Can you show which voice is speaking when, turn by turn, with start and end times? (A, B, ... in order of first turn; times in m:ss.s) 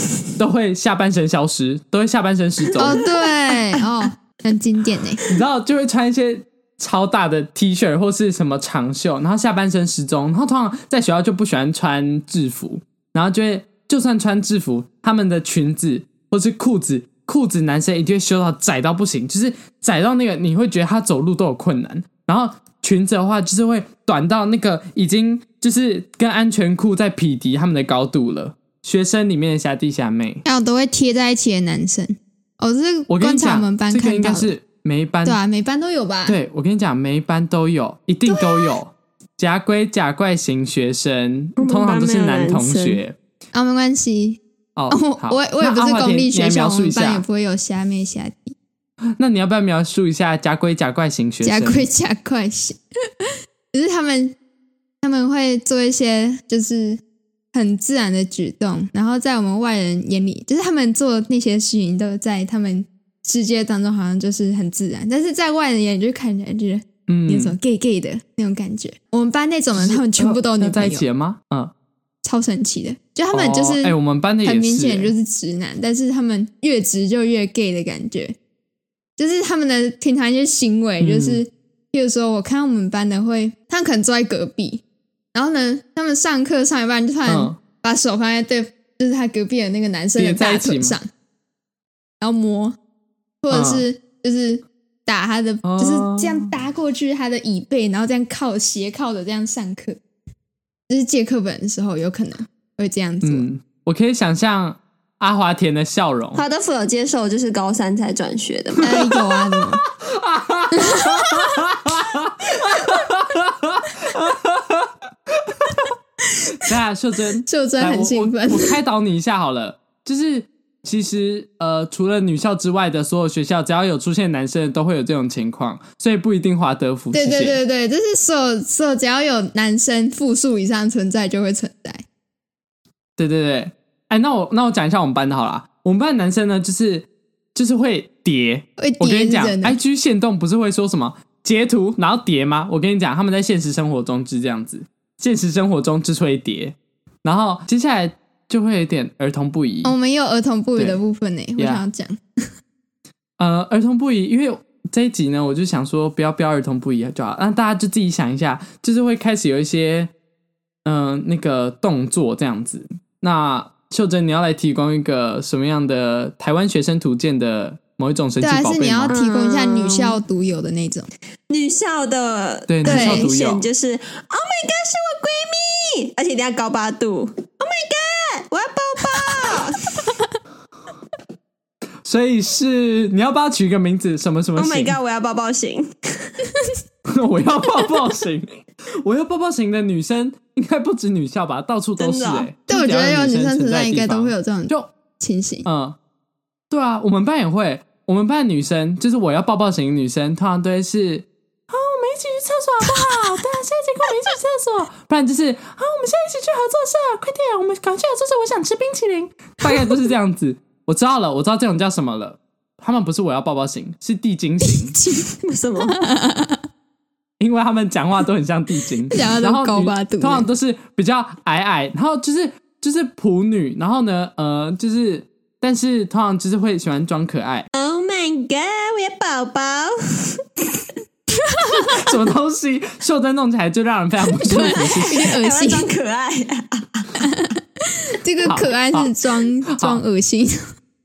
0:00.4-0:03.0 A
0:02.8-0:05.2 B
0:05.3-0:30.4 A
0:30.4-0:34.5 B
0:33.1-0:35.4 A
0:35.2-0:36.4 B
0:36.2-0:43.2 A
0:38.2-0:38.8 B
0:41.6-0:43.0 C
0:43.5-0:48.5 B
0:44.8-0:47.2 A
0:49.2-0:51.9 A
0:51.4-0:52.8 B
0:53.7-0:54.4 B
0:55.0-0:57.0 B
0:57.5-1:11.0 B
1:07.1-1:07.6 A
1:09.7-1:11.7 A
1:12.2-1:18.4 B
1:13.3-1:15.1 A
1:19.2-1:24.8 B
1:21.0-1:21.4 A
1:25.3-1:31.1 B
1:27.3-1:27.6 A
1:30.2-1:31.0 A
1:32.2-1:32.8 B
1:33.4-1:40.0 B
1:33.5-1:33.8 A
1:35.6-1:36.5 A
1:40.9-1:43.5 B
1:43.2-1:46.4 A
1:46.3-1:48.9 C
1:48.8-1:49.8 B
1:48.9-1:54.9 A
1:50.8-1:51.4 B
1:55.4-1:55.9 A
1:56.6-2:07.6 A
1:57.4-1:58.7 B
2:07.1-2:12.0 B
2:13.2-2:29.9 A
2:18.8-2:19.8 B
2:29.8-2:32.2 B
2:31.6-2:31.8 A
2:33.4-2:40.1 A
2:40.8-2:49.2 A
2:48.4-2:51.1 B
2:49.1-2:50.2 C
2:51.5-3:00.1 C
2:52.7-2:53.7 A
2:52.8-2:53.3 B
2:59.2-2:59.5 B
3:02.0-3:05.0 A
3:04.6-3:06.3 C
3:07.0-3:14.9 A
3:12.0-3:12.5 C
3:12.7-3:15.7 B
3:15.6-3:16.0 A
3:16.7-3:35.0 A
3:34.6-3:36.6 B
3:35.4-3:36.0 C
3:37.4-3:47.6 A
3:39.1-3:40.5 B
3:47.7-3:50.8 C
3:51.5-3:52.0 B
3:51.8-3:55.4 A
3:54.4-3:55.9 B
3:54.8-3:57.2 C
3:57.2-4:00.6 B
3:58.4-3:59.1 A
3:59.7-4:00.0 A